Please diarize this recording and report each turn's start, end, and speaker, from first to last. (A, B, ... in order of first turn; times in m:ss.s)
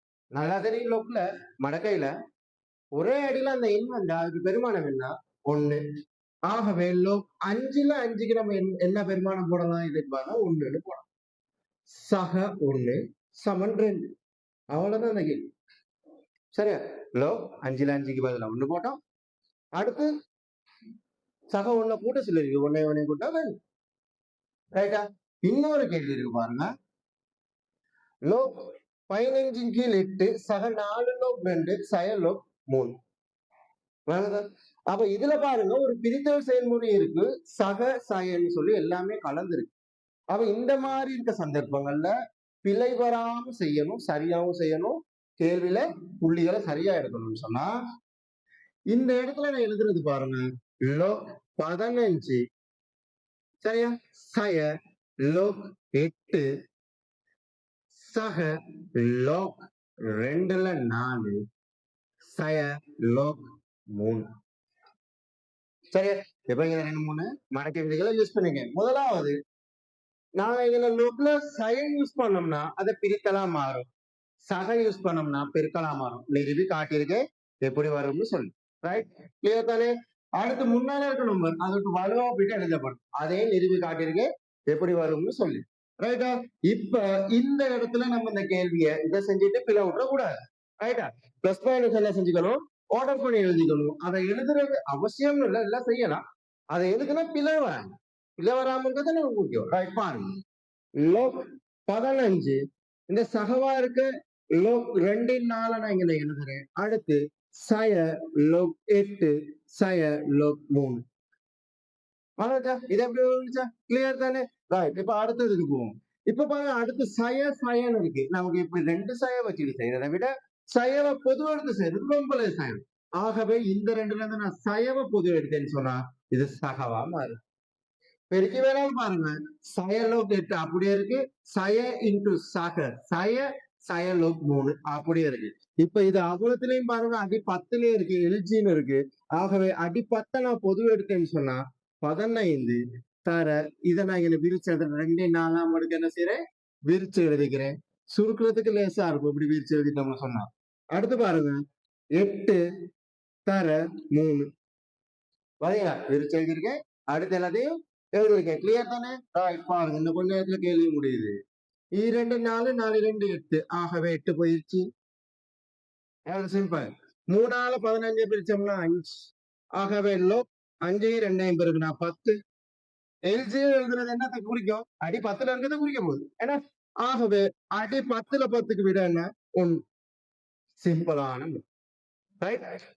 0:00.3-0:02.1 A
0:02.9-0:05.8 A
0:06.5-0:11.1 A
0:11.9-0:14.1 A
0:14.7-0:15.4 A
0:16.5-0:19.0 A
0:19.8-0:20.1 A
0:21.5-0:23.5 A
0:24.7-0:26.6 A
0:29.1-0:32.9 A
0:34.1-0:39.7 A
0:40.3-0:42.1 A
0:42.6-0:47.7 A
0:48.9-0:52.4 A
0:53.6-0:54.7 A
0:55.2-0:56.5 A
0:58.0-0:59.6 A
1:00.1-1:01.4 A
1:02.3-1:03.4 A
1:03.9-1:04.2 A
1:05.9-1:09.3 A
1:10.4-1:13.8 A
1:14.5-1:36.2 A
1:36.7-1:40.2 A
1:41.0-1:41.3 A
1:41.9-1:42.6 A
1:43.1-1:51.0 A
1:52.4-2:07.4 A
2:08.3-2:31.6 A
2:32.2-2:32.6 A
2:33.5-2:34.4 A
2:35.6-2:41.3 A
2:42.0-2:44.8 A
2:46.3-2:52.3 A
2:53.3-2:59.8 A
3:00.8-3:01.6 A
3:02.4-3:02.7 A